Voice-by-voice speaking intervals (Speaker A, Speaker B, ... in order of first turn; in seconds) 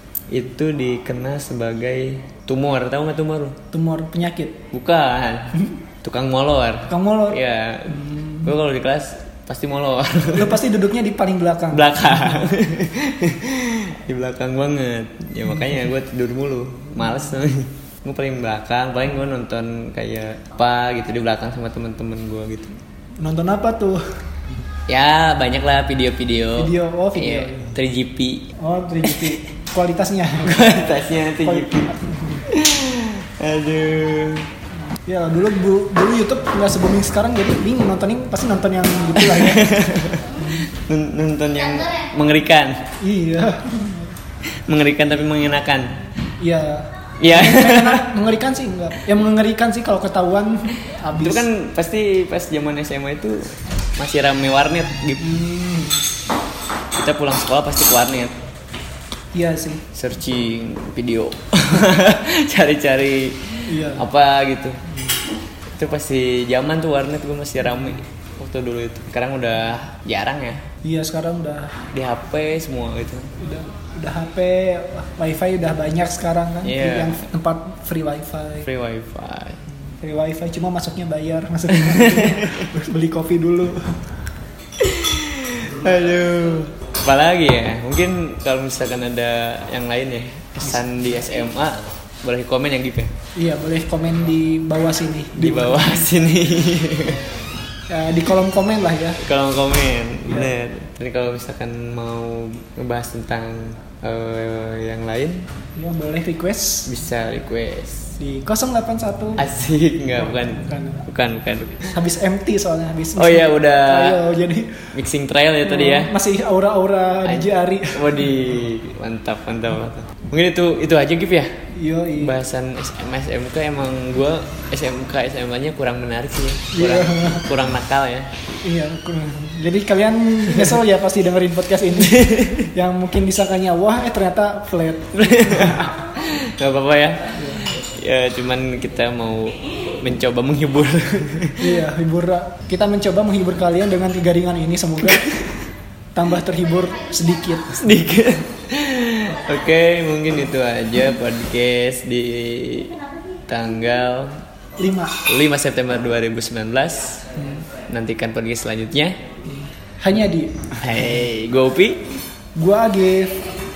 Speaker A: 0.3-3.6, 4.7-10.6, 11.7-22.8, 24.9-28.5, 29.0-29.4, 30.4-32.0, 32.5-34.5, 39.2-42.8, 44.7-45.9, 47.2-48.0, 51.2-55.3, 57.0-58.3, 59.9-64.8, 65.7-70.6, 71.9-73.3, 76.6-77.2, 78.7-79.6, 81.7-82.7, 84.8-93.1, 95.4-97.2, 99.2-105.5, 106.9-108.2, 109.4-111.9, 113.2-114.2, 114.9-116.1, 117.2-121.5, 122.2-128.3, 132.0-132.7, 135.1-141.7, 147.7-154.3, 155.3-157.2, 157.9-159.2, 160.8-162.0
Speaker B: 3.7-4.6, 6.9-7.4, 7.9-8.5, 10.3-12.5, 23.2-24.0, 26.6-27.7, 28.6-32.4, 35.1-39.7, 40.4-40.6, 43.0-44.1, 46.4-51.5, 55.2-56.0, 59.3-59.8, 63.7-64.1, 70.8-71.7, 73.4-78.7, 80.0-84.0, 93.4-96.1, 97.9-99.2, 105.8-106.9, 108.2-109.4, 110.2-111.0, 111.9-114.9, 115.6-118.4, 121.8-122.3, 126.8-127.5, 128.7-135.9, 137.4-137.6, 141.6-145.4, 146.2-148.1, 154.8-155.2, 159.5-160.8, 162.6-163.4